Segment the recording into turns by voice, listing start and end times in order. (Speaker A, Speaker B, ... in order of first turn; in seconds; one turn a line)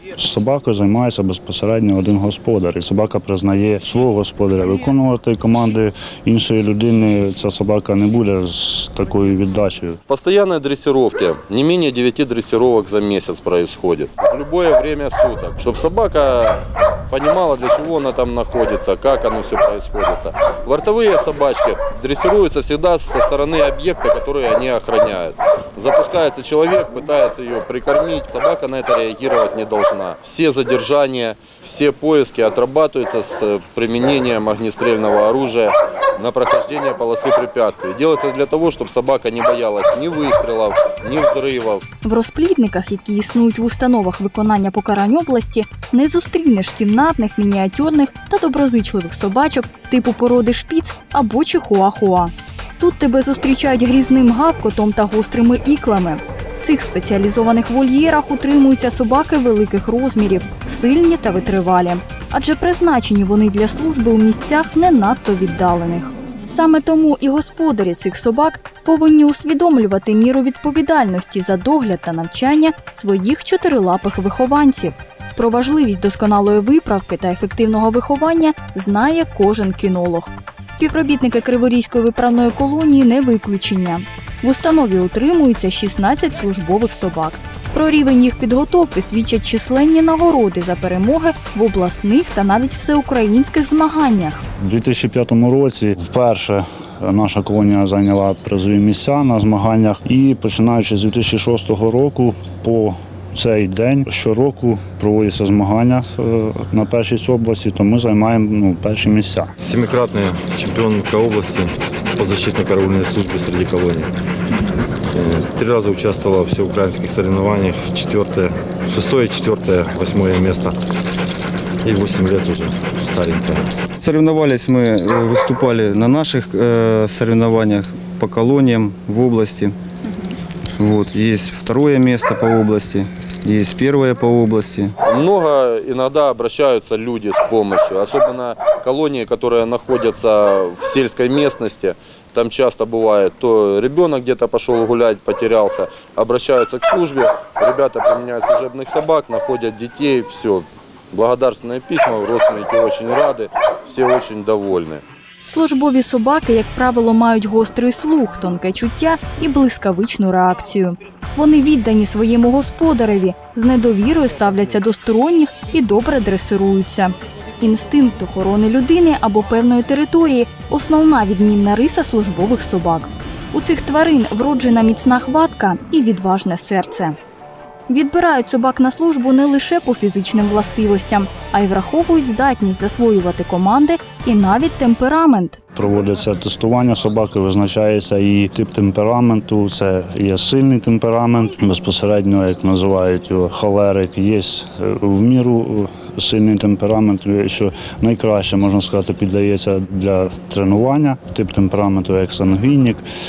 Speaker A: 0.2-10.0
Speaker B: 10.1-41.8
Speaker C: 42.0-94.4
Speaker A: 94.6-109.5
Speaker D: 109.6-114.1
Speaker D: 115.1-120.8
Speaker D: 121.8-123.7
Speaker E: 124.0-129.7
Speaker E: 130.8-134.9
Speaker B: 135.0-155.0
Speaker C: 155.5-177.2
Speaker C: 177.9-185.6
Speaker A: 185.8-203.1